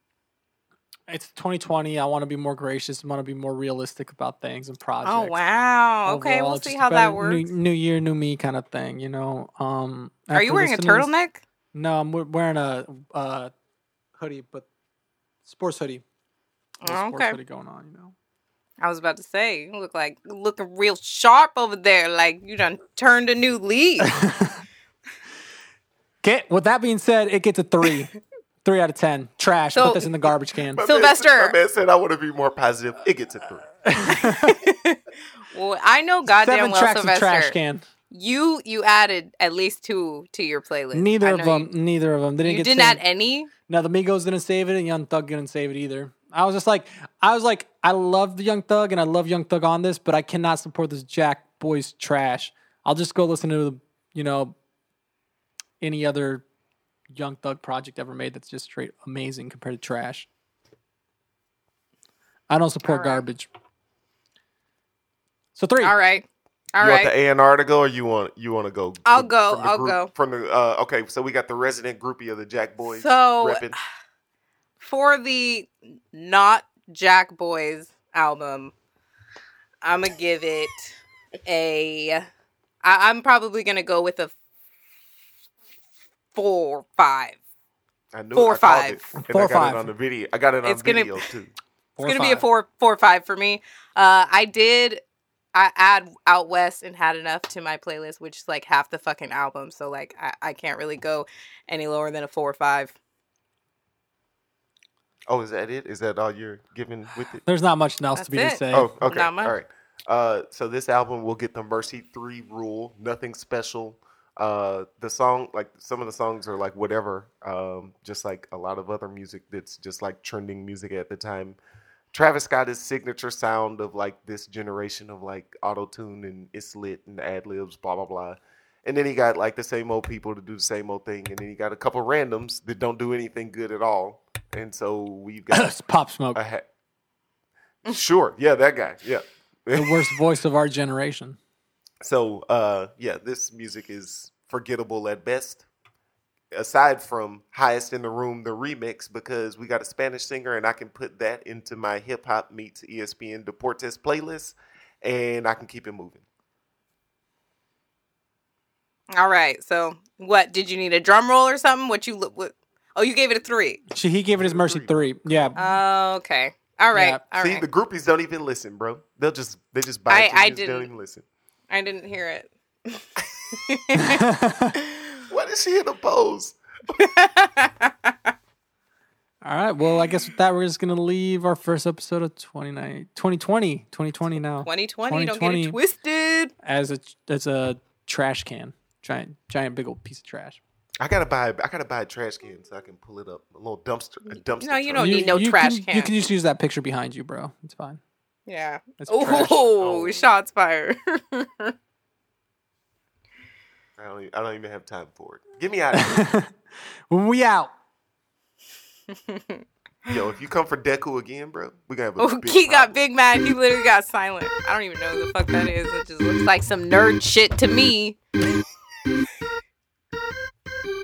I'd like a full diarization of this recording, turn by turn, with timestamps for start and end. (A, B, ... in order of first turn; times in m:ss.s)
0:01.1-0:05.3 A
0:05.0-0:07.5 B
0:06.0-0:11.1 A
0:10.3-0:11.4 B
0:11.7-0:13.5 A
0:14.2-0:14.7 A
0:15.4-0:16.0 A
0:16.8-0:17.4 B
0:16.8-0:18.1 A
0:18.8-0:24.1 B
0:24.0-0:24.6 A
0:26.2-0:28.1 A
0:28.6-0:30.8 A
0:29.7-0:30.1 B
0:30.7-0:33.7 C
0:30.8-0:31.5 B
0:33.8-0:34.6 A
0:34.1-0:35.0 B
0:35.5-0:37.6 B
0:36.3-0:37.8 A
0:38.1-0:41.7 B
0:40.9-0:43.0 A
0:42.4-0:43.5 B
0:43.7-0:54.5 A
0:55.8-0:56.4 A
0:57.1-1:00.3 A
1:02.5-1:03.5 A
1:02.8-1:03.2 B
1:05.5-1:05.9 A
1:05.8-1:07.1 B
1:06.8-1:13.8 C
1:09.0-1:10.1 B
1:12.8-1:13.8 B
1:14.8-1:18.7 B
1:19.8-1:22.3 B
1:22.8-1:24.3 B
1:26.3-1:27.4 B
1:28.1-1:31.5 C
1:28.3-1:29.1 B
1:29.2-1:29.9 A
1:30.6-1:31.2 B
1:32.0-1:32.4 A
1:32.0-1:35.0 B
1:35.5-1:42.9 B
1:45.3-1:47.4 C
1:47.4-1:48.9 A
1:48.2-1:49.5 B
1:48.7-2:01.6 C
2:02.1-2:15.8 C
2:15.5-2:16.4 A
2:16.3-2:16.6 C
2:17.8-2:20.1 C
2:19.7-2:21.4 A
2:22.0-2:25.6 C
2:26.5-2:36.2 C
2:39.1-2:43.8 B
2:43.9-2:45.8 A
2:44.3-2:45.6 C
2:45.6-2:47.6 B
2:46.9-2:47.2 A
2:47.4-2:51.2 C
2:50.1-2:50.9 B
2:51.7-2:54.2 B
2:54.0-2:54.7 A
2:54.8-2:55.2 B
2:55.3-2:57.0 C
2:57.0-2:58.1 B
2:59.4-3:05.8 A
3:04.6-3:06.5 B
3:06.6-3:10.6 A
3:11.0-3:15.4 C
3:14.6-3:16.1 B
3:15.0-3:18.0 A
3:18.5-3:21.7 B
3:19.0-3:19.6 A
3:19.8-3:20.3 C
3:24.0-3:26.2 C
3:25.9-3:26.6 A
3:27.1-3:27.7 A
3:29.1-3:29.6 B
3:30.1-3:33.0 C
3:32.2-3:38.2 B